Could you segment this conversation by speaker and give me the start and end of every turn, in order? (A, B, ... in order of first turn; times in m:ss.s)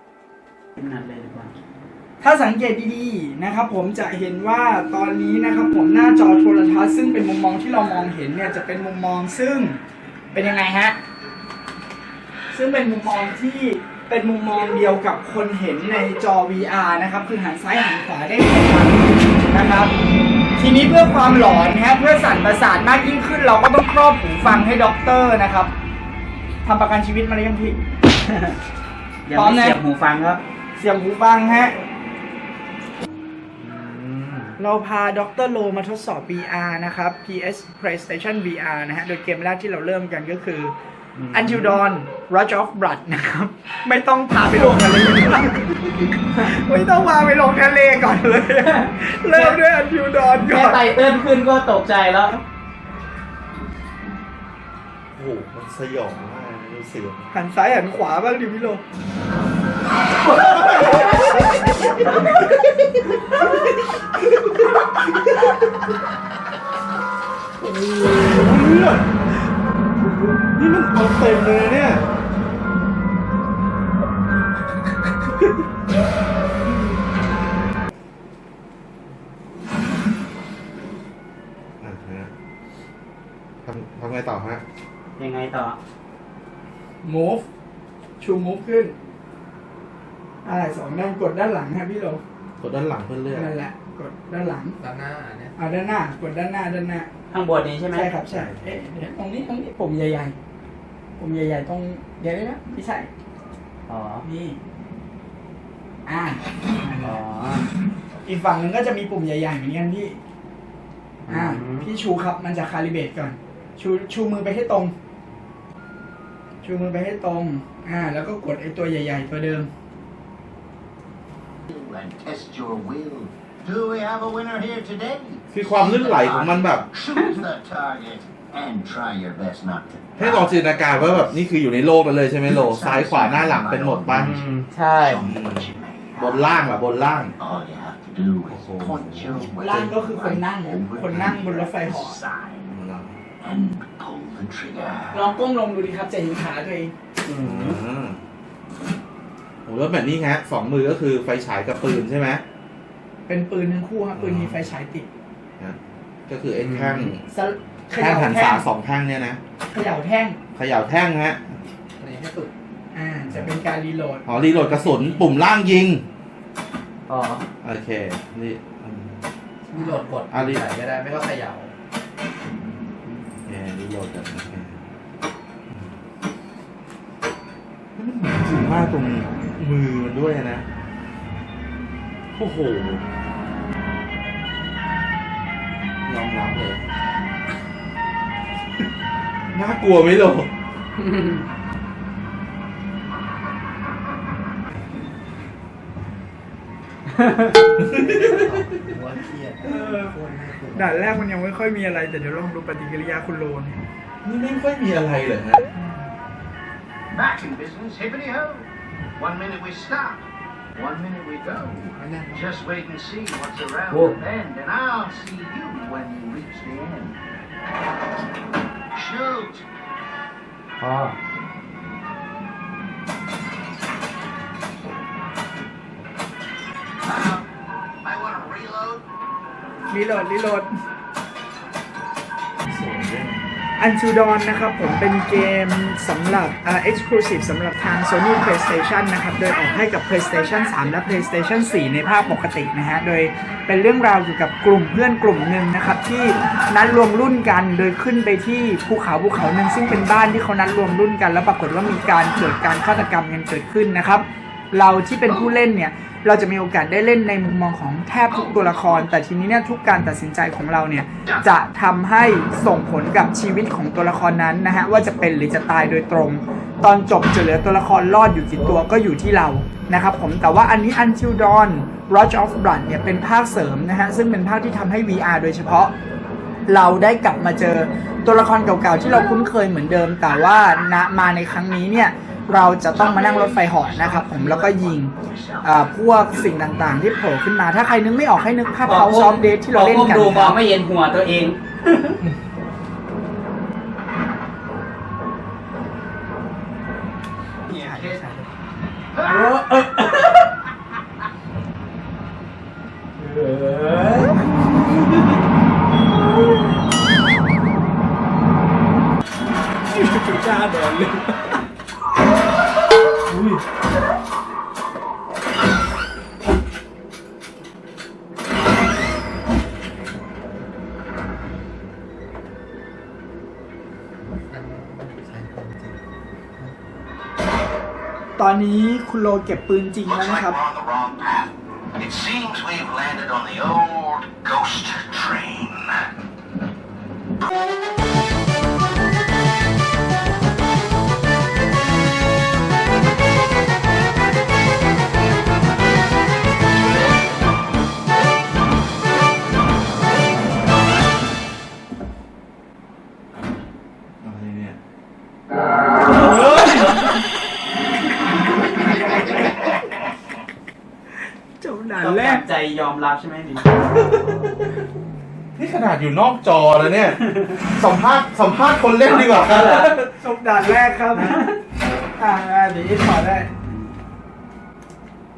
0:00.8-0:01.5 A
0:02.2-0:09.8 B
0:10.3-0:11.0 B
0:12.5-0:19.9 B
0:20.6-0:25.7 B
0:26.6-0:27.8 B
0:29.2-0:30.4 A
0:29.3-0:29.8 B
0:30.8-0:31.8 B
0:33.6-0:34.5 C
0:34.6-0:40.7 B
0:41.2-0:41.7 A
0:41.3-0:50.9 B
0:49.3-0:49.6 A
0:50.4-0:52.4 A
0:55.1-0:57.3 C
0:57.3-0:58.8 B
1:00.2-1:05.8 C
1:07.6-1:09.3 C
1:10.4-1:12.0 C
1:21.8-1:22.3 C
1:23.6-1:24.6 C
1:25.2-1:25.8 A
1:27.0-1:27.4 B
1:28.2-1:28.9 B
1:30.4-1:32.2 B
1:32.6-1:33.5 C
1:33.3-1:34.8 B
1:34.8-1:35.5 D
1:35.6-1:37.1 B
1:37.3-1:38.1 A
1:37.9-1:40.4 B
1:41.2-1:43.1 B
1:43.9-1:44.2 A
1:44.2-1:44.6 B
1:46.0-1:47.2 B
1:47.0-1:47.6 A
1:48.2-1:50.2 B
1:51.3-1:51.9 A
1:51.3-1:54.9 B
1:56.6-1:59.7 B
2:01.7-2:11.4 E
2:05.5-2:06.8 C
2:10.2-2:14.4 C
2:12.4-2:14.4 E
2:14.1-2:15.3 A
2:14.9-2:16.9 E
2:15.2-2:17.3 C
2:17.4-2:22.7 E
2:18.5-2:19.5 C
2:19.6-2:22.2 B
2:22.7-2:23.2 C
2:23.4-2:25.3 E
2:25.1-2:26.9 B
2:27.2-2:27.8 A
2:27.4-2:28.2 C
2:29.6-2:32.4 C
2:33.3-2:35.1 B
2:34.1-2:34.5 C
2:35.6-2:37.2 C
2:36.6-2:37.1 A
2:37.3-2:38.6 B
2:37.9-2:39.4 C
2:39.7-2:40.4 B
2:40.5-2:41.6 C
2:42.0-2:42.5 D
2:42.9-2:45.2 B
2:44.2-2:46.0 C
2:47.1-2:47.4 A
2:47.6-2:49.2 C
2:49.7-2:51.7 D
2:49.7-2:50.0 A
2:50.3-2:50.6 C
2:53.4-2:54.8 C
2:58.0-3:00.6 C
3:02.4-3:03.0 C
3:06.0-3:06.8 C
3:09.5-3:10.5 C
3:11.0-3:11.4 A
3:17.1-3:17.6 A
3:17.8-3:18.5 C
3:18.0-3:21.0 D
3:19.6-3:20.2 B
3:20.7-3:23.8 B
3:24.2-3:25.6 C
3:27.1-3:37.2 E
3:32.0-3:32.5 D
3:33.9-3:34.2 A
3:38.9-3:39.6 E
3:40.8-3:41.2 A
3:47.0-3:47.5 E
3:48.0-3:49.0 E
3:49.9-3:50.7 B
3:52.6-3:53.4 C
3:53.8-4:35.9 B
4:18.3-4:19.1 E
4:36.7-4:50.6 B
4:42.9-4:45.7 E
4:48.8-4:52.2 A
4:57.7-4:58.2 E
4:57.7-4:58.4 B
4:59.1-4:59.6 E
4:59.2-5:00.5 A
5:03.2-5:04.5 A
5:09.9-5:11.4 B
5:24.3-5:26.0 D
5:28.4-5:30.6 B
5:30.0-5:36.1 E
5:54.2-5:54.8 C
5:56.1-5:57.0 C
6:01.6-6:02.4 B
6:02.0-6:04.2 A
6:03.9-6:04.6 C
6:05.6-6:09.9 C
6:09.0-6:10.0 A
6:09.7-6:11.4 B
6:11.1-6:11.6 A
6:12.2-6:13.5 B